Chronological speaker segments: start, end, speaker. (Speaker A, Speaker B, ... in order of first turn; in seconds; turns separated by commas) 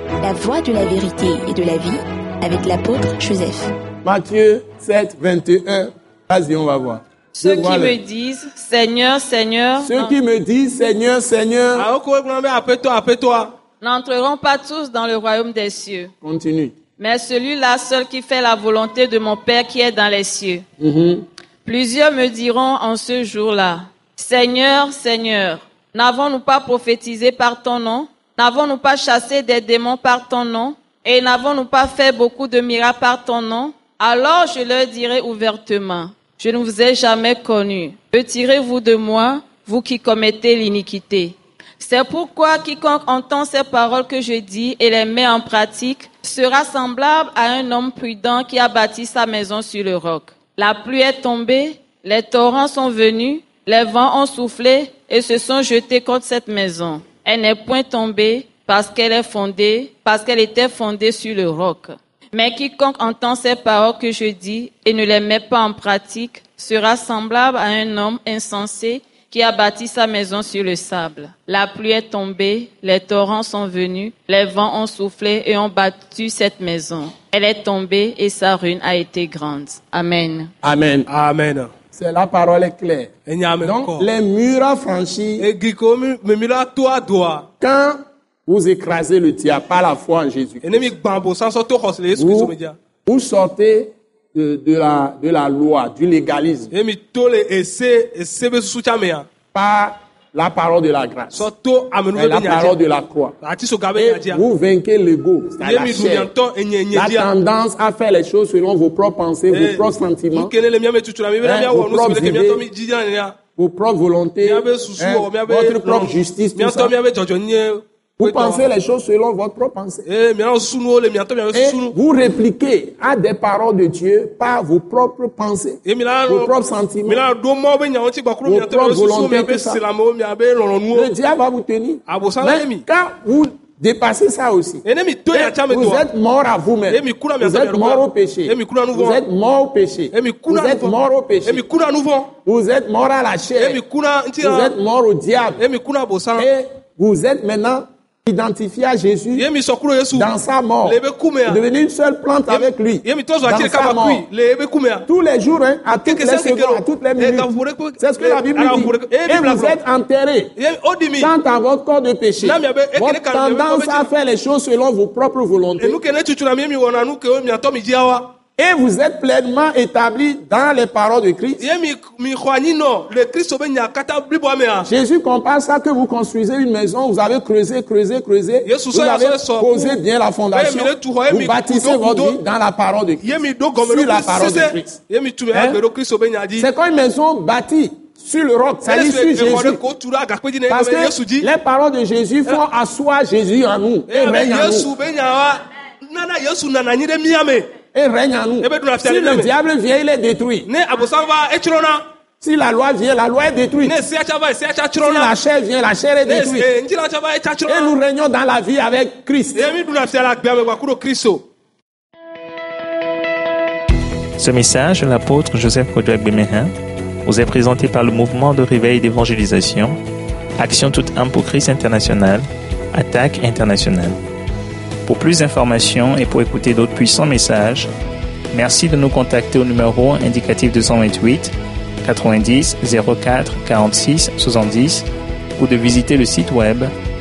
Speaker A: 0.2-3.7, Speaker B: 4.0-8.0, Speaker C: 7.3-10.2, Speaker B: 9.8-11.9, Speaker D: 11.8-13.6, Speaker C: 13.8-16.1, Speaker B: 16.2-16.8, Speaker C: 17.0-20.6, Speaker B: 20.8-21.2, Speaker C: 21.6-80.5, Speaker B: 80.6-81.1, Speaker D: 81.1-81.7, Speaker B: 81.9-85.5, Speaker D: 83.3-84.1, Speaker D: 85.4-87.5, Speaker B: 87.6-90.9, Speaker D: 90.6-92.8, Speaker B: 92.1-92.5, Speaker B: 93.1-96.7, Speaker D: 96.7-99.3, Speaker B: 99.5-101.5, Speaker D: 101.3-102.8, Speaker B: 102.2-103.4, Speaker D: 103.4-104.4, Speaker B: 104.0-106.3, Speaker D: 105.6-107.3, Speaker B: 106.9-110.5, Speaker D: 109.5-113.4, Speaker B: 111.4-112.6, Speaker B: 113.6-116.9, Speaker D: 114.4-118.7, Speaker B: 118.2-120.0, Speaker D: 120.1-121.9, Speaker B: 121.5-127.2, Speaker D: 125.8-131.1, Speaker B: 128.4-129.8, Speaker B: 130.9-141.6, Speaker D: 132.1-132.8, Speaker D: 134.8-136.1, Speaker D: 136.9-139.2, Speaker D: 140.1-142.3, Speaker B: 142.4-143.8, Speaker D: 143.6-144.8, Speaker B: 144.4-145.6, Speaker D: 145.6-146.5, Speaker B: 146.4-149.5, Speaker D: 149.4-151.6, Speaker B: 150.1-154.3, Speaker D: 152.5-155.1, Speaker B: 155.1-160.5, Speaker D: 156.0-159.8, Speaker D: 160.6-161.3, Speaker B: 161.2-166.0, Speaker D: 162.4-164.1, Speaker D: 165.8-168.3, Speaker B: 168.6-171.7, Speaker D: 171.6-174.9, Speaker B: 174.9-185.0, Speaker D: 178.6-182.4, Speaker D: 183.2-186.7, Speaker B: 185.5-185.8, Speaker B: 186.6-189.8, Speaker D: 188.8-191.5, Speaker B: 190.7-194.9, Speaker D: 194.1-197.7, Speaker B: 197.9-200.7, Speaker D: 198.6-199.5, Speaker D: 200.7-202.0, Speaker B: 202.4-204.0, Speaker D: 203.8-205.3, Speaker B: 205.0-206.7, Speaker D: 206.3-208.0, Speaker B: 207.7-209.7, Speaker D: 209.5-211.5, Speaker E: 214.4-216.7, Speaker E: 217.3-220.0, Speaker E: 220.6-224.2, Speaker E: 225.1-227.9, Speaker E: 228.5-235.1, Speaker E: 235.6-236.9